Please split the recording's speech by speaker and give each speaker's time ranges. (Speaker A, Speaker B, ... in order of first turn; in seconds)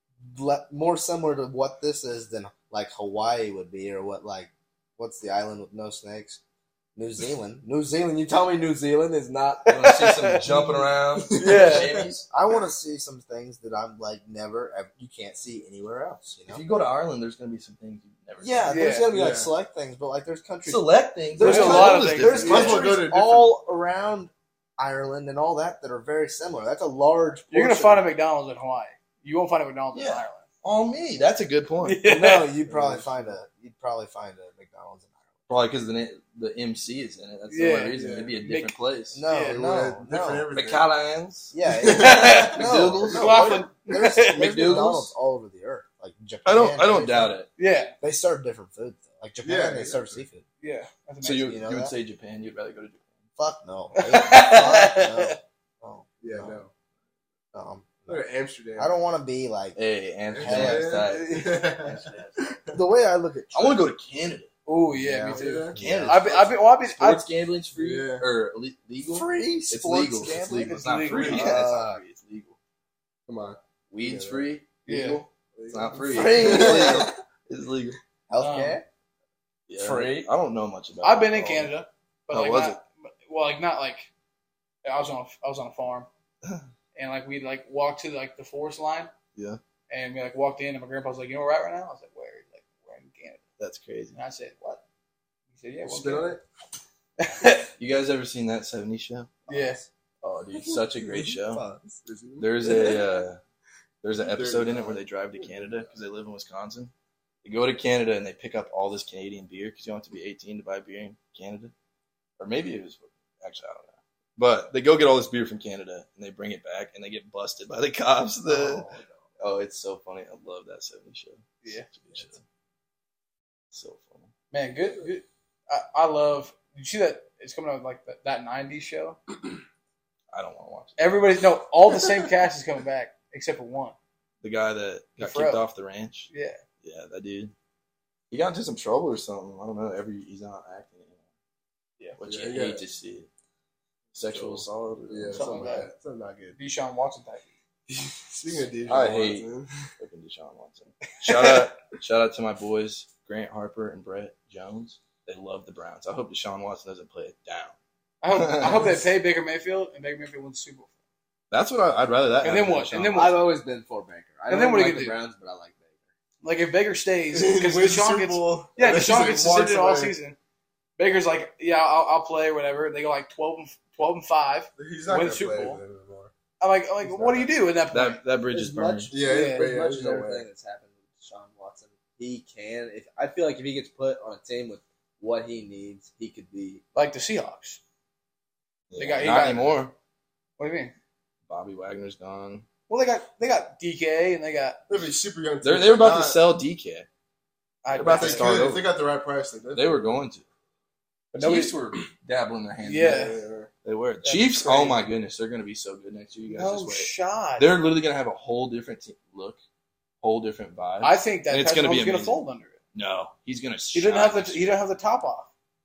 Speaker A: 0.2-6.4, 7.0-9.9, 12.3-16.6, 18.4-28.1, 32.0-35.3, 39.1-40.5, 41.5-47.4, 48.0-50.4, 51.4-51.9, 53.4-56.6, 57.5-58.2, 58.8-59.8, 60.4-61.1, 62.7-63.8, 65.0-66.2, 69.1-72.0, 76.1-77.1, 78.3-78.8, 99.5-99.9, 100.7-102.0, 118.5-119.2, 163.1-166.0, 178.5-186.8
Speaker B: 9.7-10.4, 11.3-12.1, 18.7-19.1, 21.4-22.8, 27.5-30.4, 31.8-32.5, 37.5-38.8, 39.3-39.6, 42.0-44.8, 47.6-48.0, 50.6-51.5, 53.9-55.4, 64.7-67.2, 70.5-71.6, 74.9-75.2, 78.4-78.8, 79.8-80.3, 81.0-84.1, 84.8-86.1, 87.0-89.1, 89.9-93.4, 94.1-94.8, 95.5-96.4, 97.2-97.7, 99.5-99.8, 124.5-129.2, 131.0-134.0, 135.2-135.6, 136.3-136.6, 145.3-145.9, 146.6-147.5, 151.3-151.6, 158.2-160.9, 162.4-163.4, 164.5-165.2, 166.4-170.4, 171.0-175.8, 176.6-178.2, 179.2-179.7, 186.9-187.8, 189.0-189.8, 190.6-190.9, 192.9-194.8, 197.8-198.6, 201.3-201.8, 202.8-203.4, 204.2-205.0, 206.5-207.7, 211.0-212.8, 213.9-215.5
Speaker C: 9.7-12.3, 16.5-18.8, 20.7-22.8, 29.9-32.0, 35.5-39.2, 40.5-43.6, 44.3-45.1, 46.5-47.5, 51.2-53.1, 59.8-62.4, 63.5-64.5, 65.8-72.6, 73.9-78.0, 79.7-81.7, 82.3-82.8, 89.3-89.6, 93.6-94.2, 97.8-99.5, 100.2-101.6, 102.4-103.4, 104.0-106.9, 107.4-111.7, 112.4-118.9, 119.4-122.4, 123.7-124.3, 130.3-131.2, 134.4-136.3, 136.8-137.5, 138.3-141.2, 142.2-143.3, 144.1-145.8, 148.9-157.8, 158.3-159.0, 161.5-163.4, 177.9-179.1, 188.9-189.9, 191.5-192.7, 195.6-197.1, 197.9-198.9, 199.7-200.4, 201.3-209.6, 210.2-212.4, 212.9-214.8
Speaker D: 10.5-12.1, 19.1-19.5, 21.5-23.5, 32.6-33.4, 38.0-38.3, 39.5-40.9, 41.7-42.6, 49.4-50.2, 56.2-56.7, 58.1-58.9, 60.3-62.8, 65.3-65.8, 67.8-68.2, 73.3-74.5, 75.6-77.1, 95.9-96.4, 102.0-103.0, 104.2-105.9, 142.2-142.8, 144.2-146.6, 147.9-149.7, 167.3-170.2, 174.8-176.3, 177.1-177.5, 179.1-180.5, 194.9-196.4, 198.0-200.0, 203.0-203.7